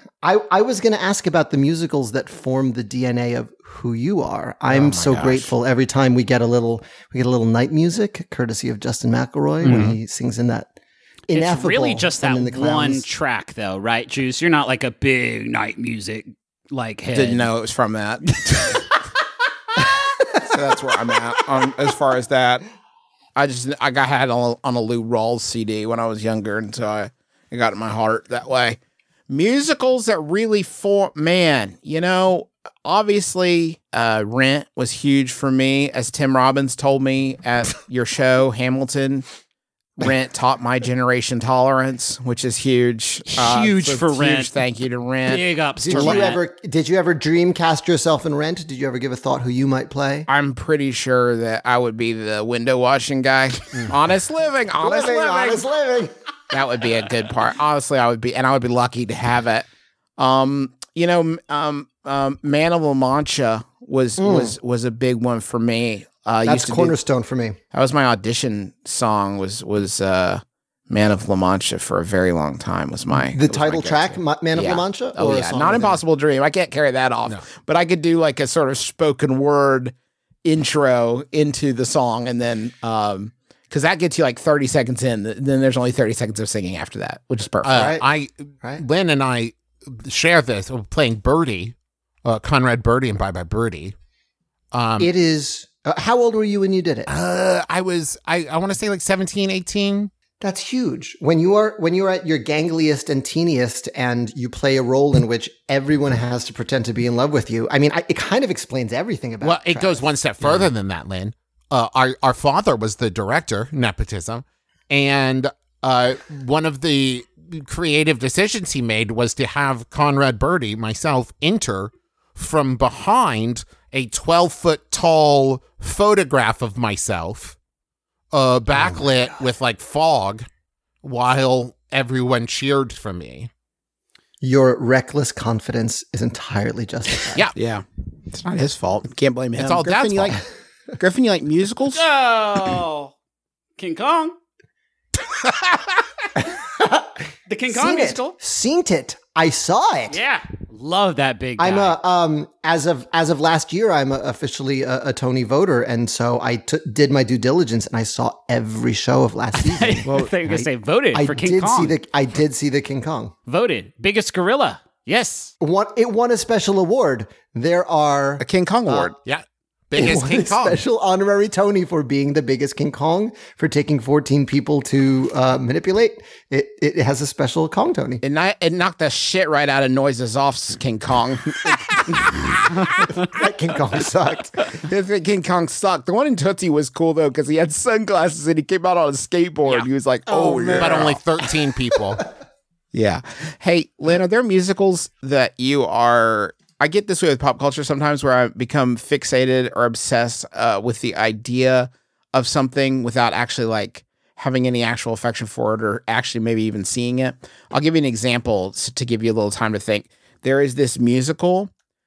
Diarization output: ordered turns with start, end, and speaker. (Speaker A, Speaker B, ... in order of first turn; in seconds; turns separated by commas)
Speaker A: 0.2-10.7, Speaker B: 4.7-5.5, Speaker A: 11.3-13.1, Speaker C: 11.3-17.5, Speaker B: 17.1-18.8, Speaker B: 20.4-22.6, Speaker B: 23.4-39.2, Speaker B: 40.0-46.3, Speaker C: 43.3-44.5, Speaker C: 45.2-46.4, Speaker A: 45.8-50.3, Speaker B: 50.3-55.7, Speaker A: 54.8-56.1, Speaker B: 56.5-59.6, Speaker B: 60.2-66.9, Speaker A: 64.2-64.5, Speaker A: 66.4-67.6, Speaker B: 67.7-79.9, Speaker A: 73.1-76.0, Speaker B: 80.4-87.9, Speaker D: 87.6-93.9, Speaker A: 87.7-88.0, Speaker D: 94.7-95.1, Speaker A: 95.0-97.1, Speaker D: 97.1-100.1, Speaker A: 100.4-110.1, Speaker D: 109.4-127.5, Speaker D: 128.3-130.4, Speaker D: 131.0-133.5, Speaker A: 134.4-137.4, Speaker B: 137.5-140.4, Speaker D: 139.6-140.4, Speaker B: 141.0-142.0, Speaker C: 141.9-143.1, Speaker C: 143.8-144.3, Speaker A: 146.8-147.1, Speaker C: 147.5-148.3, Speaker A: 147.7-150.2, Speaker C: 150.1-152.0, Speaker A: 151.6-160.1, Speaker C: 159.5-162.0, Speaker B: 160.0-160.7, Speaker A: 161.1-163.3, Speaker C: 163.5-165.5, Speaker A: 165.6-169.1, Speaker B: 168.4-169.1, Speaker D: 169.2-170.8, Speaker A: 169.9-178.2, Speaker B: 178.2-182.4, Speaker A: 183.2-184.7, Speaker B: 184.8-191.2, Speaker A: 190.3-191.2, Speaker D: 190.8-192.2, Speaker B: 192.9-211.7